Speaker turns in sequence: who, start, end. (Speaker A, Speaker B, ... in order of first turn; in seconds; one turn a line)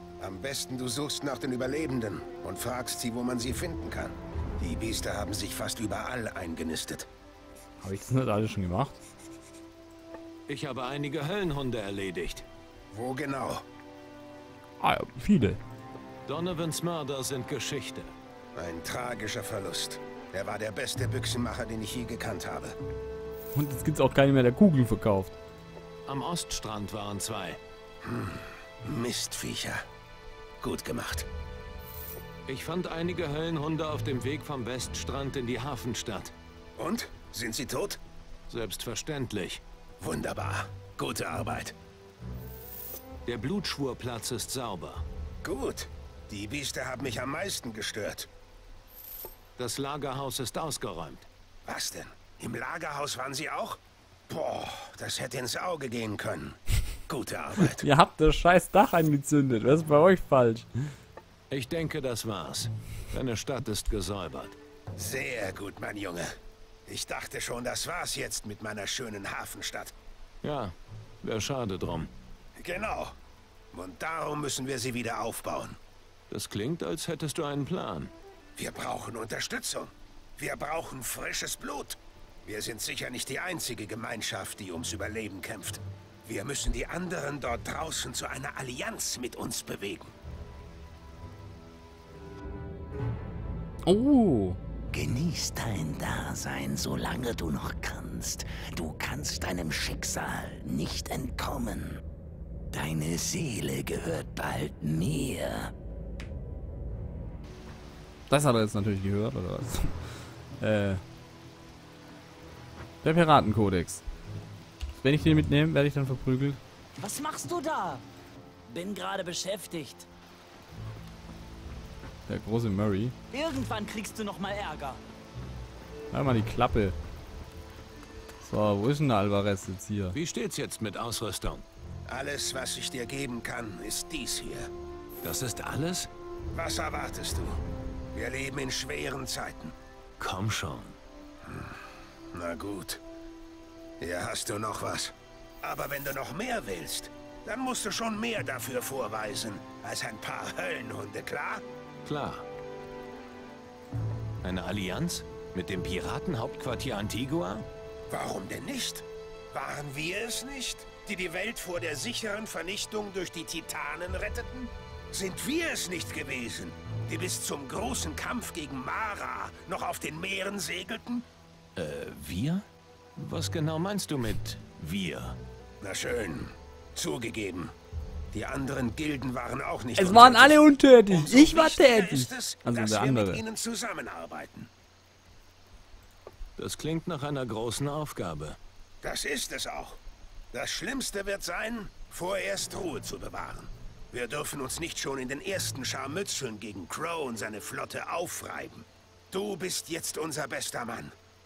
Speaker A: 0.2-7.1
Speaker B: 7.8-9.0
Speaker C: 10.5-12.4
Speaker A: 12.9-13.6
Speaker B: 14.8-15.6
Speaker C: 16.3-18.1
Speaker A: 18.6-22.8
Speaker B: 23.5-25.4
Speaker C: 26.1-27.6
Speaker A: 28.0-29.8
Speaker A: 30.6-31.3
Speaker C: 32.5-36.3
Speaker A: 36.8-38.0
Speaker C: 38.5-39.6
Speaker A: 40.0-41.8
Speaker C: 43.3-45.0
Speaker A: 45.4-48.3
Speaker C: 49.6-51.3
Speaker A: 51.7-57.9
Speaker B: 57.8-60.9
Speaker C: 61.5-64.6
Speaker A: 65.0-66.3
Speaker A: 66.9-70.0
Speaker C: 70.4-72.1
Speaker A: 72.6-73.2
Speaker A: 73.7-75.8
Speaker C: 76.3-78.1
Speaker A: 78.6-90.1
Speaker B: 93.8-94.6
Speaker D: 94.9-102.0
Speaker D: 102.7-105.7
Speaker B: 108.3-111.0
Speaker B: 113.0-114.1
Speaker B: 115.0-116.6
Speaker E: 117.0-118.0
Speaker E: 118.7-120.1
Speaker B: 122.3-123.2
Speaker E: 123.3-125.0
Speaker B: 126.1-127.0
Speaker B: 128.4-130.2
Speaker C: 130.1-131.7
Speaker A: 132.1-134.7
Speaker C: 135.2-136.1
Speaker A: 136.5-137.6
Speaker A: 138.1-139.8
Speaker C: 140.2-141.0
Speaker A: 141.4-143.0
Speaker A: 144.0-151.6
Speaker C: 152.1-152.4
Speaker C: 154.4-157.7
Speaker A: 158.1-171.2
Speaker C: 171.8-172.7
Speaker C: 173.2-175.4
Speaker A: 175.8-177.7
Speaker A: 178.3-184.7
Speaker B: 180.0-183.4
Speaker C: 186.6-188.6
Speaker A: 189.0-190.0
Speaker A: 190.5-201.2